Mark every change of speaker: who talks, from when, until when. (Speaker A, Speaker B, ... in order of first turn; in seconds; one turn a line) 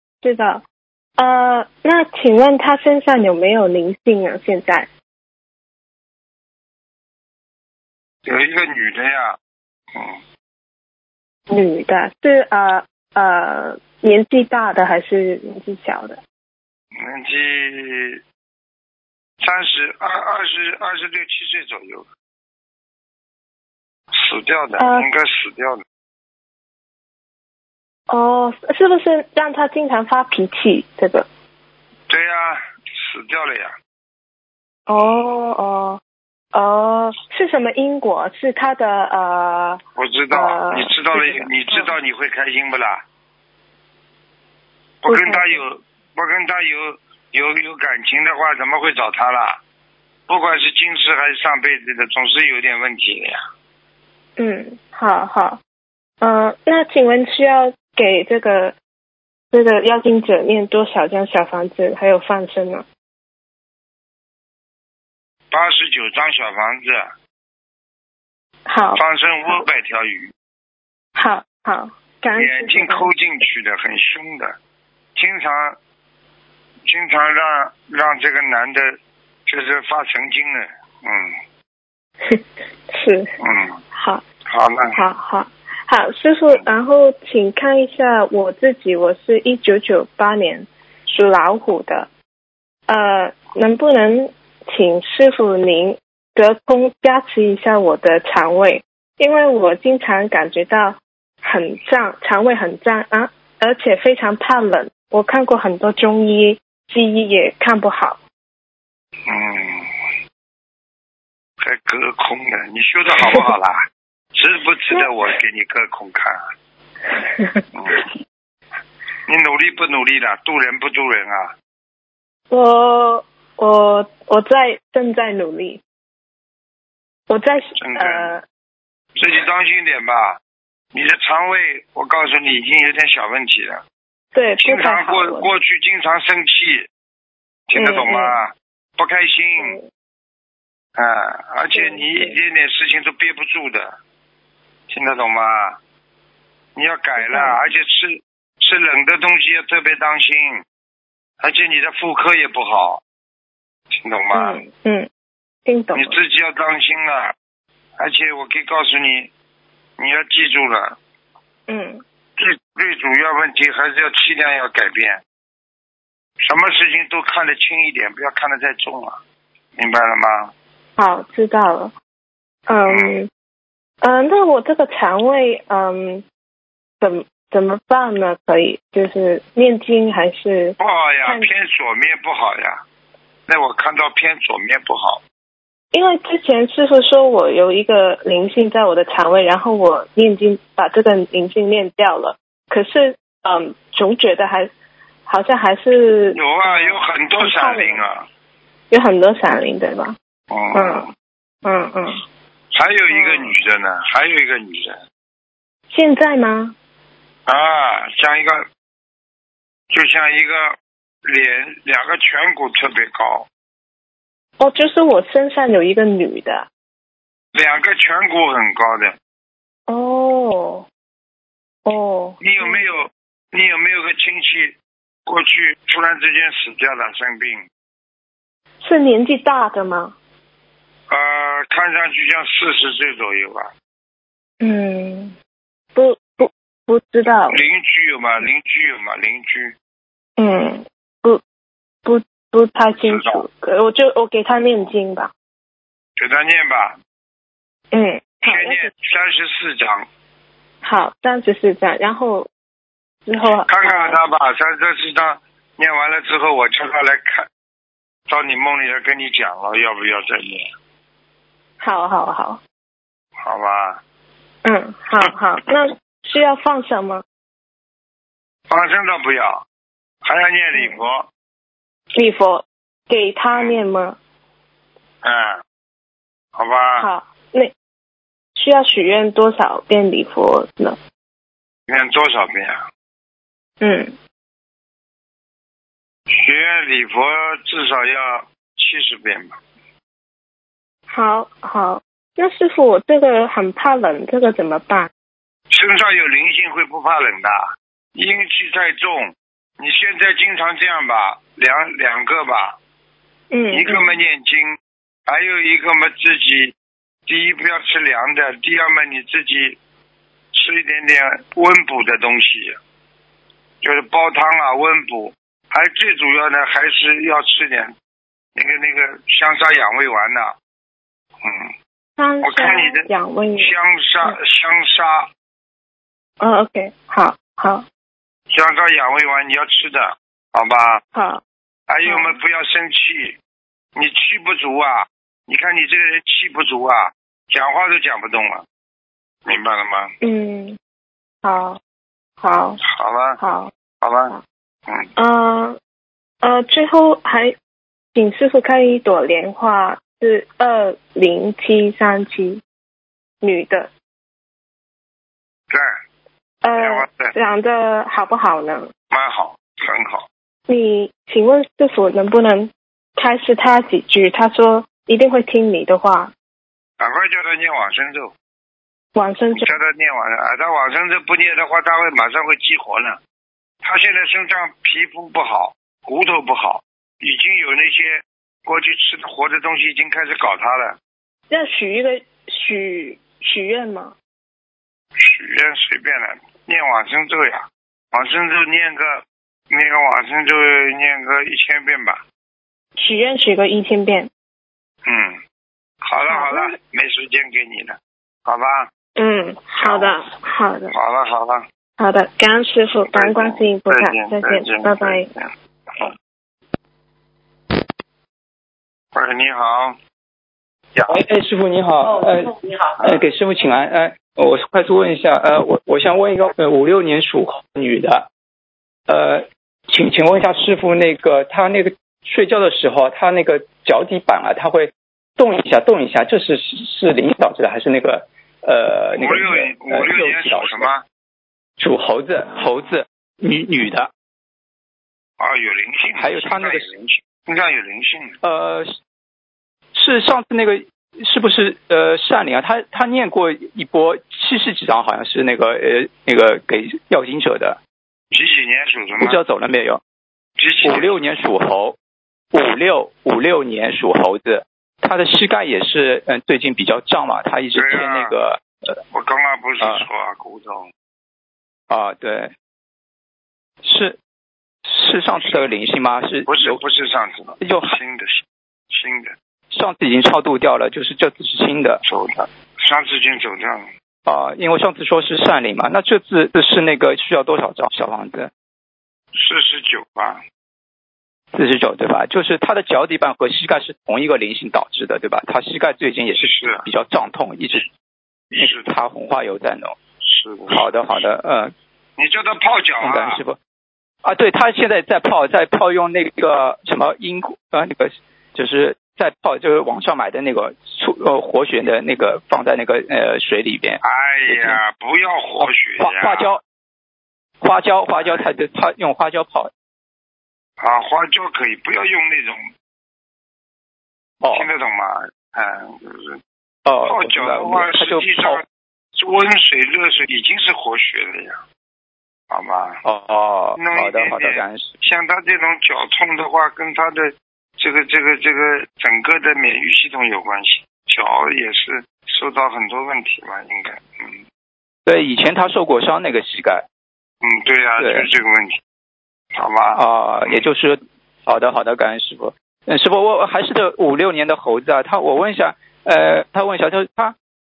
Speaker A: 0.2-0.6
Speaker A: 1.2-4.9
Speaker B: 8.2-9.4
Speaker B: 9.9-10.2
Speaker A: 11.5-16.2
Speaker B: 17.0-18.2
Speaker B: 19.4-22.1
Speaker B: 24.1-25.8
Speaker A: 24.8-25.1
Speaker A: 28.1-31.3
Speaker B: 32.1-33.7
Speaker A: 34.9-36.0
Speaker A: 36.5-39.8
Speaker B: 40.0-43.0
Speaker A: 40.3-41.9
Speaker B: 45.0-49.6
Speaker A: 45.1-45.6
Speaker B: 50.3-53.4
Speaker A: 54.4-55.6
Speaker A: 56.2-58.8
Speaker A: 59.5-62.9
Speaker B: 65.5-67.1
Speaker A: 68.7-69.6
Speaker B: 68.9-70.3
Speaker A: 71.2-73.1
Speaker B: 72.3-74.5
Speaker B: 75.2-75.8
Speaker B: 76.8-81.3
Speaker A: 82.2-83.3
Speaker B: 83.4-83.8
Speaker A: 83.9-84.2
Speaker B: 84.5-85.0
Speaker A: 84.9-92.1
Speaker A: 92.9-108.2
Speaker B: 109.3-109.9
Speaker B: 111.6-113.8
Speaker B: 114.3-116.4
Speaker A: 117.1-117.6
Speaker B: 117.7-118.0
Speaker B: 119.3-121.5
Speaker A: 122.5-125.8
Speaker A: 127.3-128.4
Speaker B: 127.8-128.4
Speaker B: 129.2-130.4
Speaker B: 130.9-133.8
Speaker A: 134.3-135.5
Speaker B: 134.6-136.9
Speaker B: 137.7-139.8
Speaker A: 137.8-138.4
Speaker A: 139.6-139.9
Speaker B: 141.0-144.0
Speaker A: 141.7-142.4
Speaker B: 144.9-145.8
Speaker B: 146.7-150.6
Speaker A: 147.2-147.6
Speaker B: 151.4-153.0
Speaker B: 153.9-154.6
Speaker A: 154.3-155.1
Speaker A: 155.7-156.2
Speaker B: 155.9-157.3
Speaker B: 158.0-159.3
Speaker B: 160.0-161.0
Speaker A: 161.7-162.0
Speaker B: 162.4-165.2
Speaker B: 166.4-169.2
Speaker B: 169.8-170.5
Speaker A: 171.0-171.9
Speaker A: 172.7-173.3
Speaker B: 172.9-173.2
Speaker A: 174.0-176.2
Speaker A: 177.0-181.5
Speaker B: 180.8-182.8
Speaker B: 183.5-185.2
Speaker A: 185.9-194.7
Speaker A: 195.3-198.0
Speaker B: 196.3-198.2
Speaker A: 198.9-200.2
Speaker B: 200.5-201.1
Speaker A: 200.7-201.1
Speaker A: 201.6-202.2
Speaker B: 202.7-205.0
Speaker A: 203.1-203.6
Speaker A: 205.9-206.8
Speaker B: 207.5-208.6
Speaker B: 209.9-213.5
Speaker A: 214.6-216.7
Speaker B: 217.5-219.1
Speaker A: 219.9-220.9
Speaker A: 221.8-222.9
Speaker B: 222.4-227.6
Speaker A: 228.8-230.2
Speaker B: 231.1-233.7
Speaker A: 234.6-235.3
Speaker A: 235.9-237.6
Speaker B: 237.5-239.7
Speaker A: 240.4-241.4
Speaker A: 242.0-245.3
Speaker B: 242.9-243.4
Speaker B: 246.2-247.0
Speaker A: 247.9-248.9
Speaker B: 248.4-250.1
Speaker A: 250.8-252.5
Speaker A: 253.2-254.2
Speaker B: 253.7-257.5
Speaker B: 258.3-260.6
Speaker A: 261.8-262.6
Speaker B: 263.4-264.0
Speaker A: 264.6-267.2
Speaker B: 268.7-269.6
Speaker B: 270.2-271.3
Speaker A: 270.7-271.0
Speaker A: 272.1-274.2
Speaker B: 273.5-273.8
Speaker B: 275.2-275.6
Speaker B: 276.6-277.1
Speaker A: 277.0-277.7
Speaker A: 278.6-281.0
Speaker B: 281.9-282.8
Speaker A: 283.8-284.1
Speaker B: 286.3-289.6
Speaker A: 291.1-295.1
Speaker B: 295.7-297.6
Speaker B: 298.1-302.8
Speaker A: 303.5-304.1
Speaker B: 303.7-304.8
Speaker B: 305.3-306.7
Speaker B: 307.3-309.8
Speaker B: 310.5-312.8
Speaker B: 313.8-317.9
Speaker B: 318.6-320.6
Speaker B: 321.4-321.7
Speaker A: 322.2-324.4
Speaker B: 322.4-325.3
Speaker A: 326.4-327.8
Speaker B: 328.5-331.0
Speaker A: 331.1-331.4
Speaker B: 331.9-333.4
Speaker A: 332.0-332.4
Speaker B: 333.9-338.6
Speaker B: 339.4-340.1
Speaker A: 340.2-340.8
Speaker A: 341.4-341.8
Speaker A: 342.4-342.8
Speaker B: 342.8-343.4
Speaker A: 343.4-343.7
Speaker B: 344.0-344.3
Speaker A: 345.2-345.8
Speaker A: 346.4-347.5
Speaker A: 348.1-352.6
Speaker A: 353.4-353.9
Speaker A: 356.6-358.9
Speaker B: 356.7-357.3
Speaker B: 359.1-360.3
Speaker A: 360.7-366.3
Speaker B: 367.0-368.3
Speaker A: 369.1-369.7
Speaker B: 369.5-373.2
Speaker B: 373.8-381.0
Speaker A: 381.5-384.1
Speaker B: 385.2-392.2
Speaker A: 393.0-394.3
Speaker B: 395.1-395.4
Speaker B: 396.0-398.9
Speaker A: 396.3-396.7
Speaker A: 399.1-400.9
Speaker B: 399.8-400.1
Speaker B: 400.9-401.6
Speaker A: 402.0-405.3
Speaker B: 403.1-405.4
Speaker B: 409.1-409.9
Speaker C: 411.1-418.3
Speaker C: 419.1-430.9
Speaker B: 429.2-431.0
Speaker C: 431.8-434.1
Speaker B: 435.4-438.4
Speaker C: 436.1-436.9
Speaker C: 438.4-438.9
Speaker C: 439.9-447.8
Speaker B: 448.3-449.4
Speaker C: 449.2-450.0
Speaker B: 450.6-451.2
Speaker C: 450.8-451.9
Speaker C: 452.5-459.0
Speaker B: 457.7-458.3
Speaker B: 459.1-460.9
Speaker C: 459.8-460.0
Speaker C: 461.9-462.5
Speaker C: 463.8-464.2
Speaker C: 464.8-466.8
Speaker B: 465.4-465.7
Speaker B: 466.5-469.3
Speaker C: 467.6-468.0
Speaker C: 469.7-472.0
Speaker B: 472.0-473.9
Speaker C: 474.2-478.5
Speaker B: 479.3-480.4
Speaker C: 481.5-487.9
Speaker B: 486.4-486.9
Speaker B: 488.5-488.9
Speaker C: 488.6-490.0
Speaker B: 490.2-490.9
Speaker C: 490.7-491.7
Speaker B: 492.2-493.4
Speaker C: 493.0-493.6
Speaker C: 494.2-504.8
Speaker B: 504.0-506.5
Speaker C: 505.6-506.6
Speaker C: 507.6-509.7
Speaker B: 508.2-508.5
Speaker B: 510.8-512.7
Speaker C: 514.4-514.7
Speaker B: 514.5-516.4
Speaker C: 516.9-518.6
Speaker B: 517.0-518.6
Speaker B: 519.2-521.6
Speaker B: 522.5-523.0
Speaker C: 523.0-524.9
Speaker B: 523.8-534.4
Speaker C: 535.0-536.8
Speaker B: 537.4-538.8
Speaker C: 538.0-538.3
Speaker B: 539.5-540.6
Speaker C: 539.9-547.3